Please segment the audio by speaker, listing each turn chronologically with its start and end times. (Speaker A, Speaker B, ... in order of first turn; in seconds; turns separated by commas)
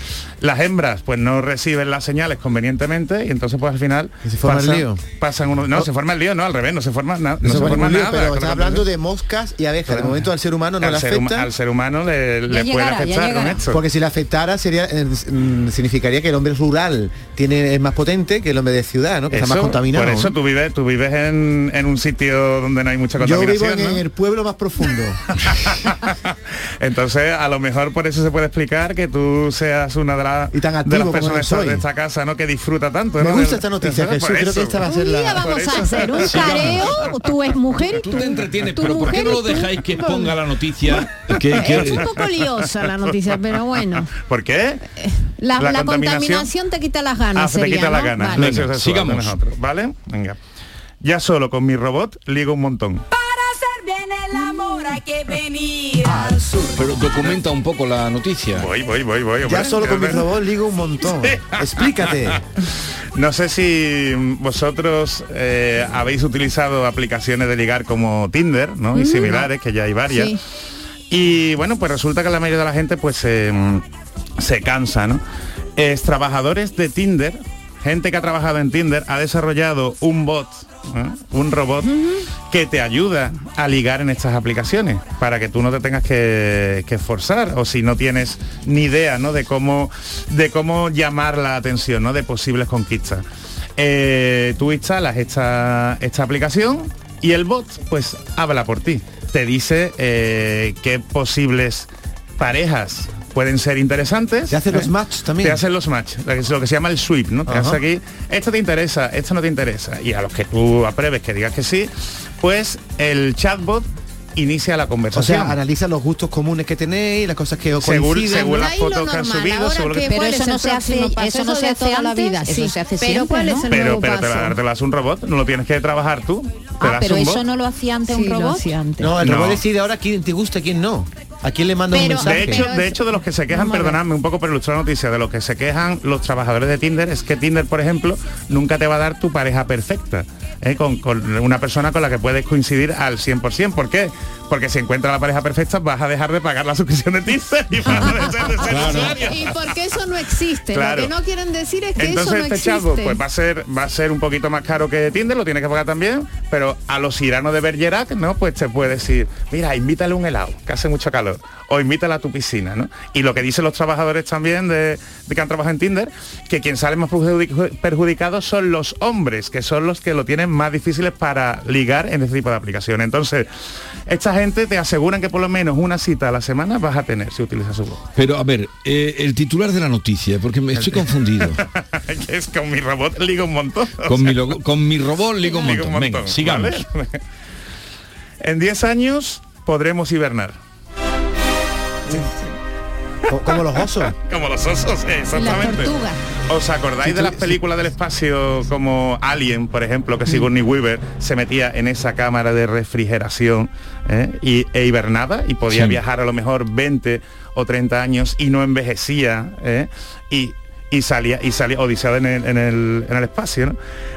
Speaker A: 0.4-8.8, Speaker B: 4.2-5.0, Speaker B: 7.4-11.5, Speaker A: 9.9-10.2, Speaker A: 10.8-13.8, Speaker C: 12.5-13.6, Speaker B: 13.7-20.3, Speaker A: 19.3-24.0, Speaker B: 23.2-25.2, Speaker A: 25.6-26.1, Speaker A: 26.8-34.8, Speaker B: 30.5-31.8, Speaker B: 33.2-35.6, Speaker D: 34.8-40.3, Speaker A: 35.4-36.5, Speaker E: 36.2-37.0, Speaker E: 37.9-42.1, Speaker A: 41.3-43.3, Speaker D: 41.4-44.1, Speaker A: 44.0-44.8, Speaker D: 45.0-48.5, Speaker A: 45.5-46.5, Speaker A: 47.3-50.4, Speaker E: 48.3-49.4, Speaker A: 51.0-53.0, Speaker F: 53.1-56.4, Speaker B: 56.1-56.4, Speaker E: 56.8-58.7, Speaker A: 58.5-60.3, Speaker B: 59.4-62.4, Speaker A: 63.1-70.4, Speaker D: 68.9-69.5, Speaker D: 70.1-70.4, Speaker A: 71.1-73.8, Speaker A: 74.4-75.2, Speaker A: 75.8-82.0, Speaker A: 82.5-93.2, Speaker A: 93.8-104.9, Speaker B: 104.5-105.6, Speaker A: 105.4-115.6, Speaker B: 107.5-107.8, Speaker B: 115.1-118.7, Speaker A: 117.8-120.2, Speaker D: 118.3-124.5, Speaker C: 120.1-123.7, Speaker A: 123.7-127.4, Speaker C: 126.8-128.8, Speaker D: 128.1-129.2, Speaker B: 129.0-132.7, Speaker A: 129.2-129.6, Speaker D: 131.9-134.0, Speaker A: 132.1-149.7, Speaker D: 148.0-153.2, Speaker E: 148.7-149.2, Speaker A: 150.7-151.1, Speaker A: 152.0-173.5, Speaker A: 174.1-178.0, Speaker E: 178.2-181.6, Speaker A: 180.8-184.3, Speaker E: 184.1-186.8, Speaker A: 185.4-187.2, Speaker A: 188.4-190.6, Speaker B: 193.3-194.1, Speaker A: 193.5-196.0, Speaker D: 195.3-196.2, Speaker A: 196.5-213.8, Speaker B: 197.0-197.6, Speaker E: 205.7-206.0